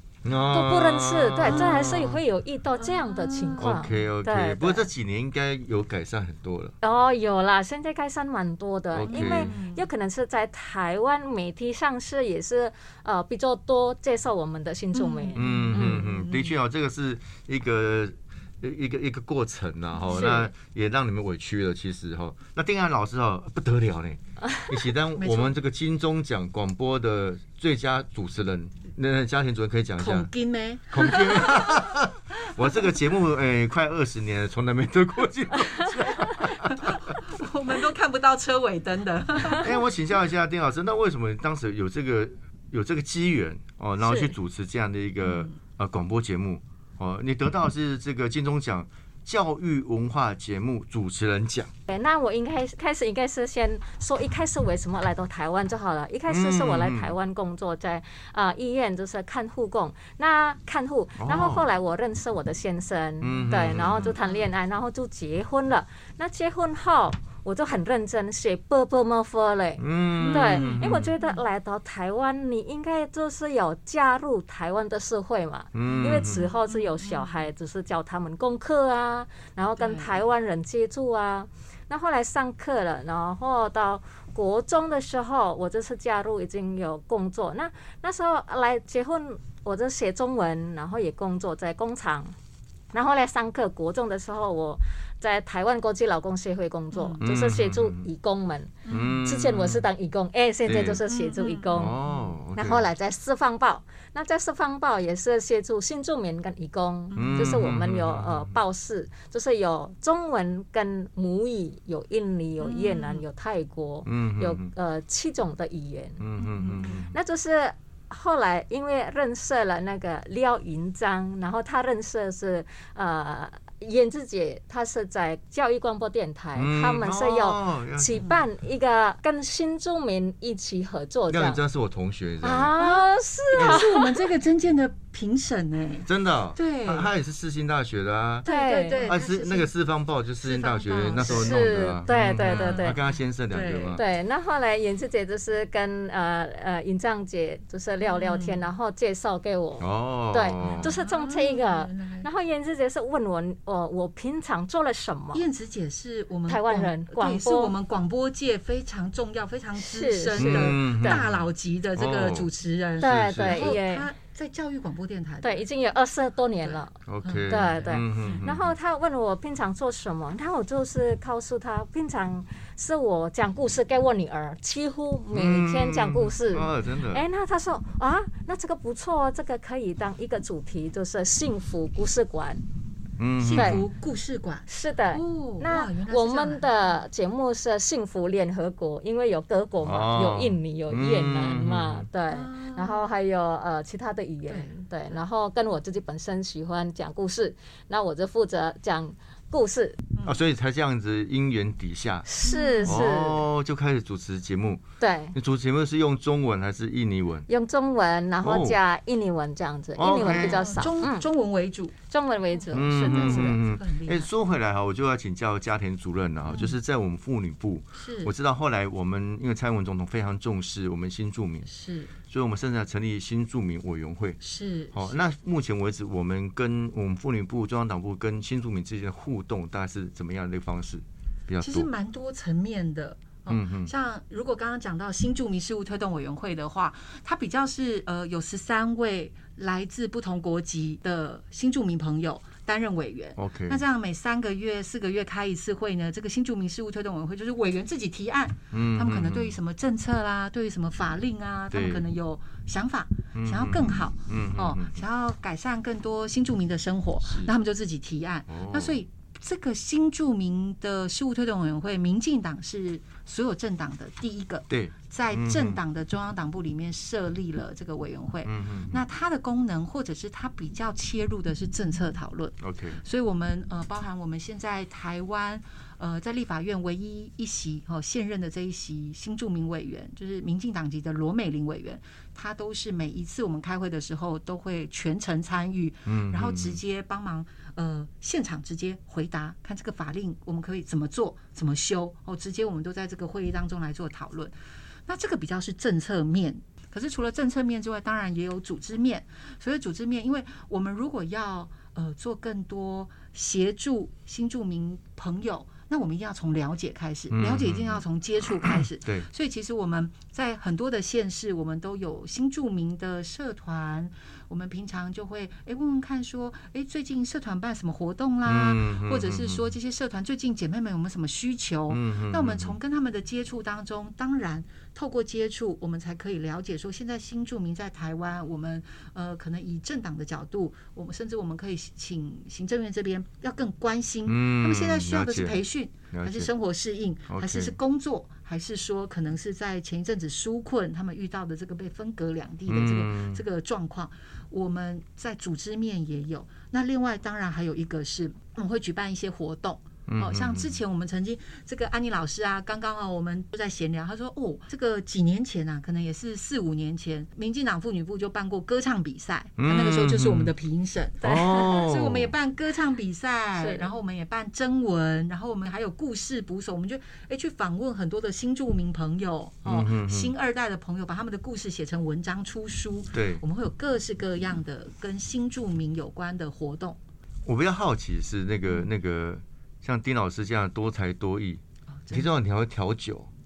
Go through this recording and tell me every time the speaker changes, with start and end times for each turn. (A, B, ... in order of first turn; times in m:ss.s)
0:00.2-0:02.2 A
0:00.5-0:04.9 B
0:02.8-0:03.7 C
0:03.6-0:06.8 A
0:06.8-0:16.1 B
0:08.9-0:09.5 A
0:09.1-0:09.8 C
0:14.9-0:16.6 C
0:15.4-0:30.3 A
0:20.0-0:20.4 C
0:20.1-0:20.5 B
0:25.2-0:25.6 C
0:30.0-0:32.0 C
0:30.9-0:37.2 A
0:32.6-0:33.0 C
0:36.6-0:39.8 C
0:39.5-0:51.7 A
0:44.0-0:44.3 B
0:45.2-0:45.5 C
0:51.9-1:32.3 B
0:56.3-0:57.1 A
1:01.2-1:01.7 A
1:03.2-1:04.2 A
1:09.8-1:11.1 A
1:10.2-1:11.4 C
1:15.7-1:16.5 A
1:15.8-1:17.4 C
1:19.8-1:20.2 C
1:32.9-1:42.0 B
1:36.9-1:37.2 C
1:37.2-1:38.0 A
1:38.9-1:39.2 C
1:38.9-1:39.9 A
1:40.7-1:41.0 A
1:41.0-1:42.3 C
1:41.7-1:42.9 A
1:42.6-1:56.2 B
1:47.1-1:47.6 C
1:47.2-1:48.6 A
1:52.6-1:53.2 C
1:54.1-1:54.7 A
1:56.2-1:57.1 A
1:56.4-1:57.1 C
1:57.1-2:11.6 B
2:06.6-2:08.2 A
2:11.3-2:12.7 A
2:12.4-2:14.3 B
2:12.8-2:17.1 C
2:16.1-2:24.0 A
2:18.4-2:19.7 C
2:18.4-2:19.1 B
2:20.4-2:21.6 C
2:21.2-2:23.0 B
2:22.4-2:24.0 C
2:24.0-2:35.4 B
2:28.0-2:28.6 C
2:29.8-2:30.9 A
2:30.6-2:32.3 C
2:35.3-2:45.6 C
2:36.5-2:37.8 B
2:39.8-2:41.2 B
2:40.3-2:41.4 A
2:42.0-2:43.8 A
2:43.0-2:44.1 B
2:45.4-2:46.9 B
2:46.6-2:48.5 C
2:47.1-2:48.7 A
2:47.5-3:02.6 B
2:55.3-2:57.2 A
3:03.2-3:03.8 A
3:03.4-3:06.7 C
3:03.5-3:03.8 B
3:04.7-3:20.0 B
3:09.8-3:12.1 A
3:12.3-3:13.1 C
3:14.5-3:14.7 C
3:20.1-3:20.4 C
3:20.2-3:22.3 A
3:22.2-3:23.4 B
3:22.4-3:23.0 C
3:22.8-3:24.8 A
3:25.0-3:25.4 B
3:25.3-3:27.5 A
3:27.5-3:31.3 B
3:28.4-3:28.8 A
3:30.0-3:30.7 A
3:30.2-3:31.9 C
3:32.1-3:33.6 B
3:32.5-3:34.3 C
3:32.7-3:41.7 A
3:36.5-3:36.8 C
3:38.0-3:38.3 C
3:41.7-3:42.1 C
3:42.3-3:44.4 A
3:44.4-3:45.2 C
3:44.9-3:51.9 A
3:51.6-4:54.6 C
3:53.5-3:53.9 A
4:03.4-4:03.8 A
4:08.7-4:09.6 A
4:11.7-4:12.0 A
4:13.4-4:15.0 A
4:17.3-4:17.5 A
4:18.5-4:19.0 A
4:24.7-4:25.8 A
4:28.4-4:29.0 A
4:32.6-4:33.0 A
4:46.1-4:46.8 A
4:55.1-6:17.0 C
5:07.3-5:08.0 A
5:08.7-5:09.3 A
5:18.5-5:19.7 A
5:21.9-5:22.8 A
5:34.3-5:35.6 A
5:36.1-5:36.5 A
5:37.3-5:37.8 A
5:42.7-5:43.4 A
5:50.1-5:50.7 A
5:59.6-6:00.5 A
6:01.2-6:02.3 A
6:01.2-6:01.8 B
6:03.6-6:03.9 B
6:09.6-6:10.3 A
6:13.1-6:13.4 A
6:17.5-6:23.3 A
6:22.0-6:22.3 C